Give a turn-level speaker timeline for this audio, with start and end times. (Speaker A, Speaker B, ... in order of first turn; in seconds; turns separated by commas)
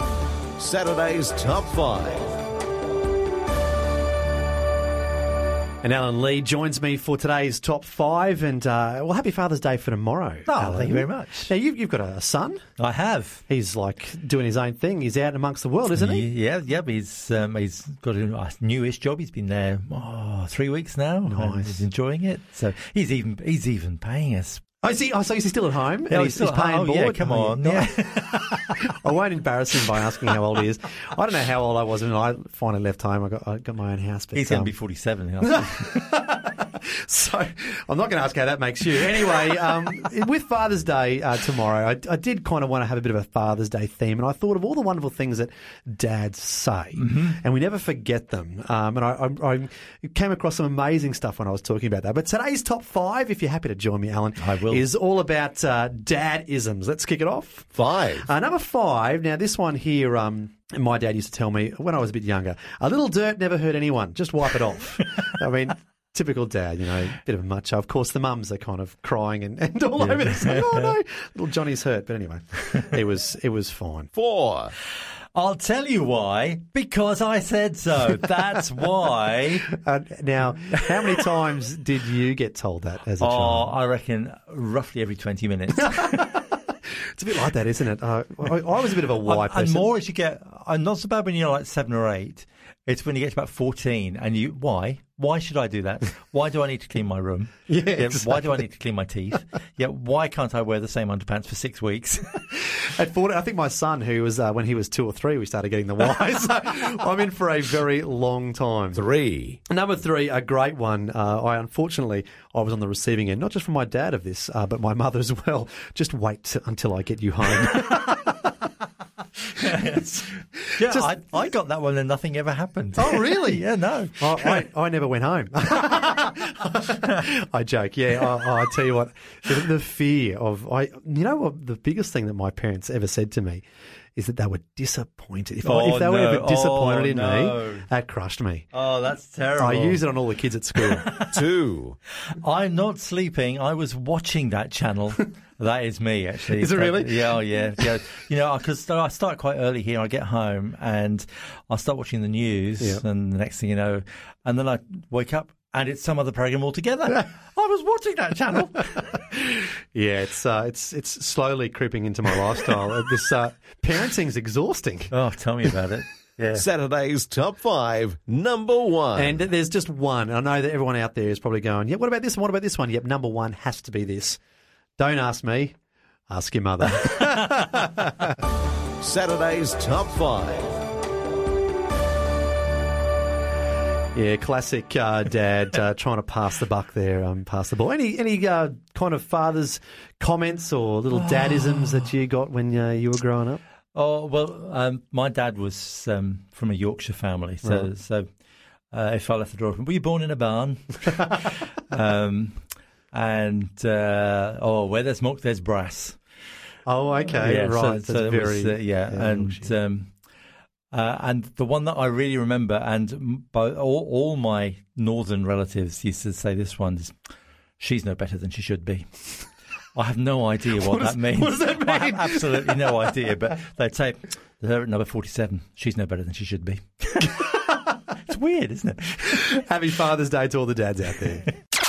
Speaker A: 0.6-2.4, Speaker B: 5.8-12.6, Speaker C: 10.5-11.5, Speaker C: 12.8-13.4, Speaker B: 13.5-16.3, Speaker C: 15.9-24.6, Speaker B: 21.3-21.8, Speaker B: 24.8-27.9, Speaker C: 26.1-28.8, Speaker B: 28.8-34.7, Speaker C: 34.4-35.9, Speaker B: 35.4-74.1, Speaker C: 47.0-47.4, Speaker C: 54.4-54.9, Speaker A: 57.8-58.3, Speaker A: 74.1-74.7, Speaker C: 75.3-79.7, Speaker B: 79.7-83.7, Speaker C: 83.2-86.4, Speaker B: 85.8-86.4, Speaker B: 87.2-89.9, Speaker C: 89.2-102.4, Speaker B: 97.7-98.6, Speaker B: 102.7-109.0, Speaker A: 109.0-109.6, Speaker B: 109.7-118.5, Speaker C: 119.6-120.2, Speaker B: 119.9-120.3, Speaker C: 120.7-124.7, Speaker B: 120.8-121.1, Speaker B: 123.0-123.6, Speaker B: 124.2-133.6, Speaker B: 134.2-138.7, Speaker C: 135.6-137.9, Speaker C: 138.7-140.1, Speaker B: 139.6-141.1, Speaker C: 140.8-141.3, Speaker A: 141.3-142.0, Speaker C: 142.3-159.3, Speaker B: 146.6-147.2, Speaker B: 159.9-165.1, Speaker C: 165.1-166.7, Speaker A: 166.6-169.4, Speaker B: 169.2-174.4, Speaker B: 175.0-175.8, Speaker B: 176.3-178.3, Speaker A: 179.0-180.8, Speaker B: 184.1-193.6, Speaker C: 191.4-191.9, Speaker C: 193.9-198.3, Speaker C: 198.9-202.6, Speaker C: 203.1-206.2, Speaker B: 206.9-209.7, Speaker C: 207.3-210.1, Speaker C: 210.9-217.2, Speaker C: 217.8-219.1, Speaker C: 219.9-227.7, Speaker B: 220.8-223.0, Speaker C: 228.3-229.5, Speaker B: 229.3-231.5